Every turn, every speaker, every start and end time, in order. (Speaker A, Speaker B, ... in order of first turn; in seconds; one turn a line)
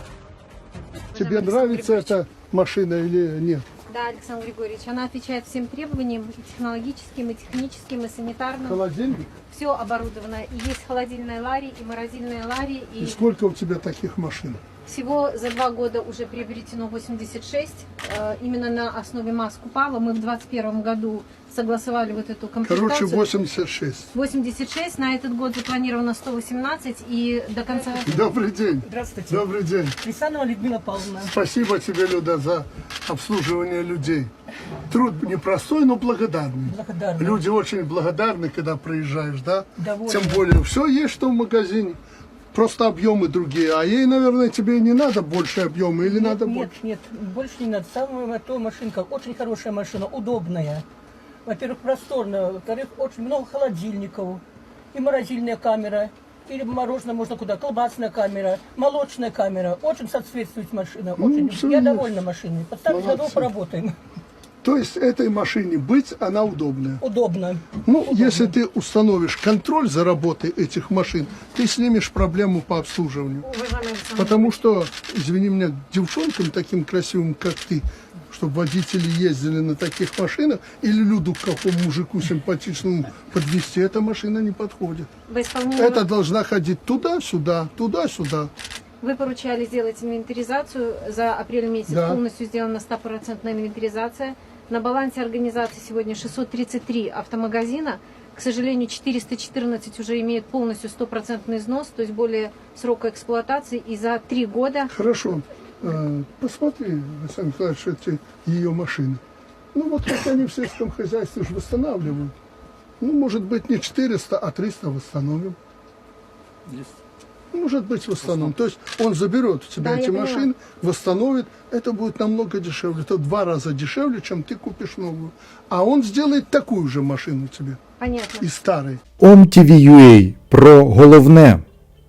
Speaker A: 1.1-2.2
Speaker B: 1.1-3.6
Speaker A: 3.9-8.8
Speaker B: 8.7-9.3
Speaker A: 9.4-13.2
Speaker B: 13.0-14.6
Speaker A: 14.8-23.3
Speaker B: 22.6-24.1
Speaker A: 24.1-28.2
Speaker C: 27.9-31.3
Speaker B: 28.1-29.9
Speaker B: 31.1-34.3
Speaker B: 34.9-42.0
Speaker C: 36.6-37.5
Speaker C: 39.8-40.5
Speaker B: 42.5-46.8
Speaker C: 46.0-50.8
Speaker C: 51.5-64.0
Speaker B: 61.2-62.2
Speaker B: 62.9-63.5
Speaker B: 64.6-67.0
Speaker C: 67.0-68.6
Speaker B: 67.8-73.5
Speaker A: 73.4-74.6
Speaker B: 74.2-85.1
Speaker A: 85.3-86.0
Speaker B: 85.8-88.5
Speaker A: 89.0-104.9
Speaker B: 91.9-92.2
Speaker B: 104.9-109.2
Speaker B: 109.7-112.3
Speaker B: 113.0-115.6
Speaker B: 117.5-127.8
Speaker A: 119.8-120.5
Speaker A: 128.0-128.5
Speaker B: 128.4-129.0
Speaker D: 129.2-131.6